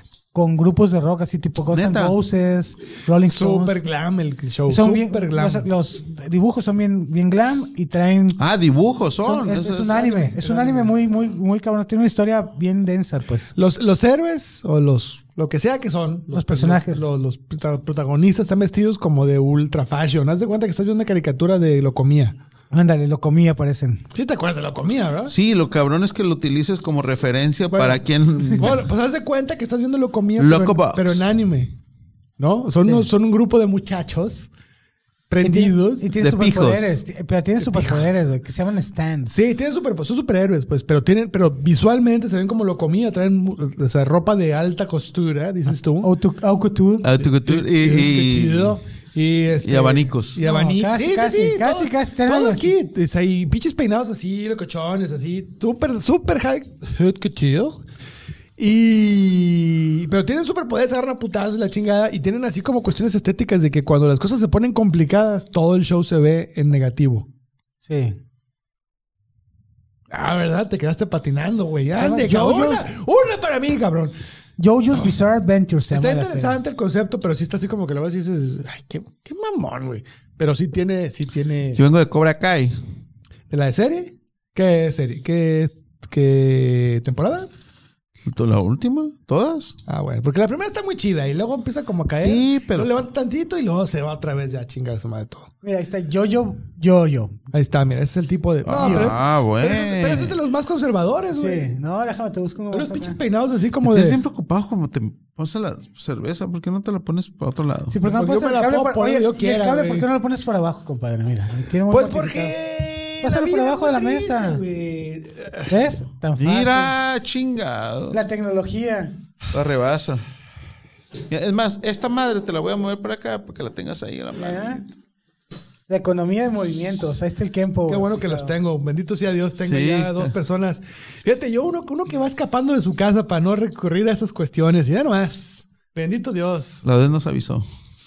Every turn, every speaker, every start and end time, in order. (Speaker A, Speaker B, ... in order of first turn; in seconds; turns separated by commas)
Speaker A: 0.3-3.8, Speaker B: 1.7-2.2, Speaker C: 3.3-5.7, Speaker A: 4.7-8.4, Speaker B: 8.4-10.1, Speaker A: 9.2-13.5, Speaker C: 10.1-10.9, Speaker C: 13.6-22.4, Speaker A: 16.3-17.1, Speaker A: 22.7-24.1, Speaker C: 24.1-25.3, Speaker B: 25.3-28.8, Speaker C: 27.7-31.7, Speaker B: 30.4-31.2, Speaker C: 32.4-34.5, Speaker A: 32.8-33.1, Speaker C: 35.3-36.1, Speaker A: 35.4-39.4, Speaker B: 36.2-37.0, Speaker C: 37.6-38.1, Speaker C: 39.3-46.1, Speaker A: 46.0-47.1, Speaker B: 47.0-48.8, Speaker C: 47.2-57.8, Speaker B: 49.6-50.4, Speaker A: 50.4-52.7, Speaker C: 58.6-67.3, Speaker A: 67.9-68.2, Speaker C: 70.1-74.2, Speaker A: 72.0-72.9, Speaker A: 74.6-76.6, Speaker C: 75.9-81.8, Speaker B: 81.8-82.8, Speaker C: 83.5-87.5, Speaker B: 88.2-89.8, Speaker C: 89.9-95.5, Speaker B: 92.2-92.9, Speaker A: 95.6-97.4, Speaker C: 97.5-101.7, Speaker B: 98.7-100.4, Speaker A: 98.8-99.2, Speaker A: 101.3-103.2, Speaker C: 102.7-104.2, Speaker B: 103.8-108.0, Speaker A: 107.9-112.6, Speaker C: 108.0-110.1, Speaker C: 111.9-115.8, Speaker A: 113.2-114.6, Speaker A: 115.7-116.9, Speaker B: 116.4-118.2, Speaker A: 118.1-119.2, Speaker B: 119.5-120.2, Speaker B: 121.3-124.9, Speaker A: 124.3-124.8, Speaker A: 125.9-128.5, Speaker C: 127.9-136.8, Speaker B: 129.6-130.3, Speaker B: 136.8-137.7